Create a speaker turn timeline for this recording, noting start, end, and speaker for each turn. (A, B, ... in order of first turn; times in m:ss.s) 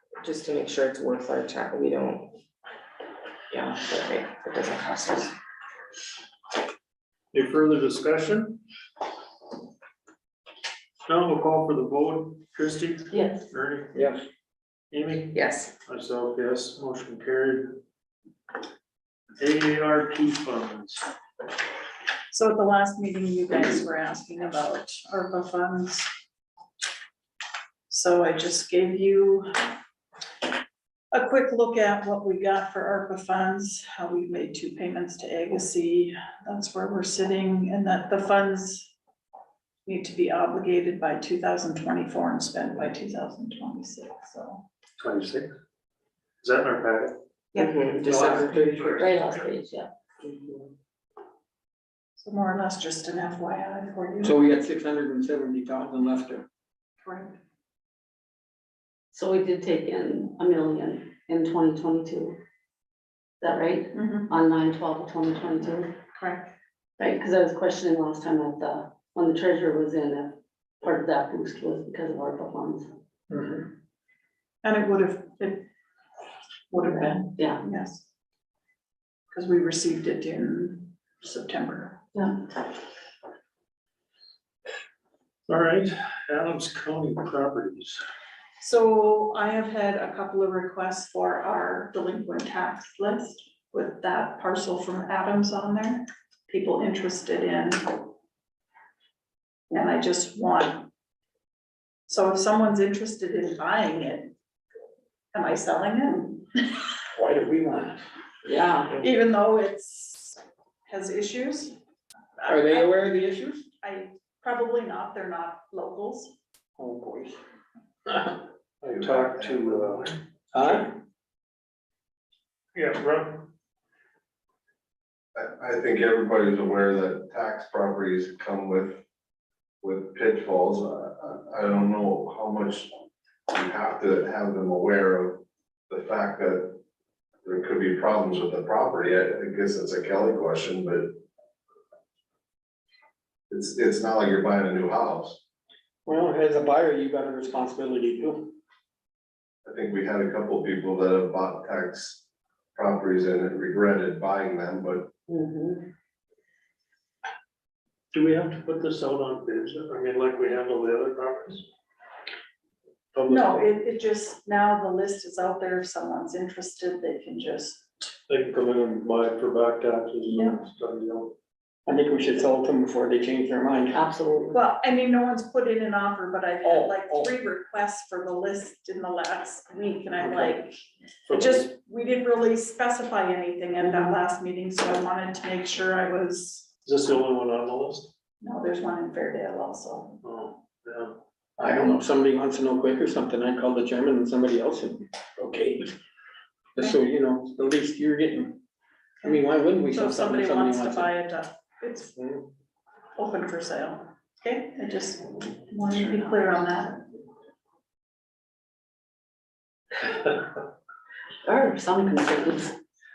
0:00.2-0:02.3 A
0:03.5-0:05.3 A
0:07.3-0:08.6 B
0:11.0-0:13.9 B
0:13.1-0:13.4 C
0:13.9-0:14.2 D
0:14.9-0:15.3 B
0:15.3-0:15.7 A
0:15.9-0:17.8 B
0:19.4-0:21.0 B
0:22.3-0:26.1 E
0:27.9-0:29.7 E
0:31.1-0:38.9 E
0:39.8-0:44.6 E
0:45.0-0:45.5 B
0:46.4-0:47.2 B
0:47.5-0:49.5 A
0:48.0-0:49.4 B
0:49.0-0:49.9 C
0:50.2-0:50.7 A
0:52.2-0:54.4 E
0:54.2-0:56.4 D
0:57.0-0:57.4 E
0:59.1-1:02.4 C
1:03.4-1:05.9 C
1:03.9-1:04.3 E
1:06.1-1:06.5 E
1:07.0-1:12.9 C
1:13.3-1:13.6 D
1:14.6-1:15.6 E
1:16.7-1:18.0 E
1:17.0-1:17.6 C
1:19.3-1:22.0 E
1:25.5-1:28.0 B
1:28.6-1:38.1 E
1:39.7-1:40.9 E
1:42.1-1:44.3 E
1:45.3-1:46.7 E
1:47.1-1:48.0 D
1:48.4-1:49.0 C
1:49.0-1:51.8 E
1:52.4-1:53.0 E
1:52.4-1:53.6 D
1:53.8-1:56.3 E
1:56.8-1:57.4 D
1:58.8-2:00.1 F
1:58.8-2:00.2 B
2:00.5-2:00.9 D
2:02.7-2:03.5 B
2:05.3-2:09.0 F
2:09.8-2:12.9 F
2:13.5-2:16.8 F
2:17.4-2:21.1 F
2:23.5-2:25.4 F
2:26.0-2:28.5 D
2:29.6-2:32.2 F
2:32.7-2:35.1 F
2:35.3-2:35.8 C
2:38.1-2:41.6 B
2:43.2-2:43.4 D
2:43.2-2:47.8 E
2:48.3-2:51.3 B
2:50.3-2:50.6 E
2:51.8-2:54.0 D
2:53.9-2:54.6 C
2:54.5-3:06.7 E
2:56.6-2:57.3 D
3:01.3-3:01.7 B
3:03.8-3:04.2 C
3:06.8-3:08.1 B
3:08.4-3:10.2 E
3:10.2-3:11.2 B
3:11.6-3:15.9 D
3:16.8-3:18.6 D
3:19.2-3:22.1 E
3:19.2-3:21.1 D
3:23.2-3:27.0 E
3:31.4-3:32.7 C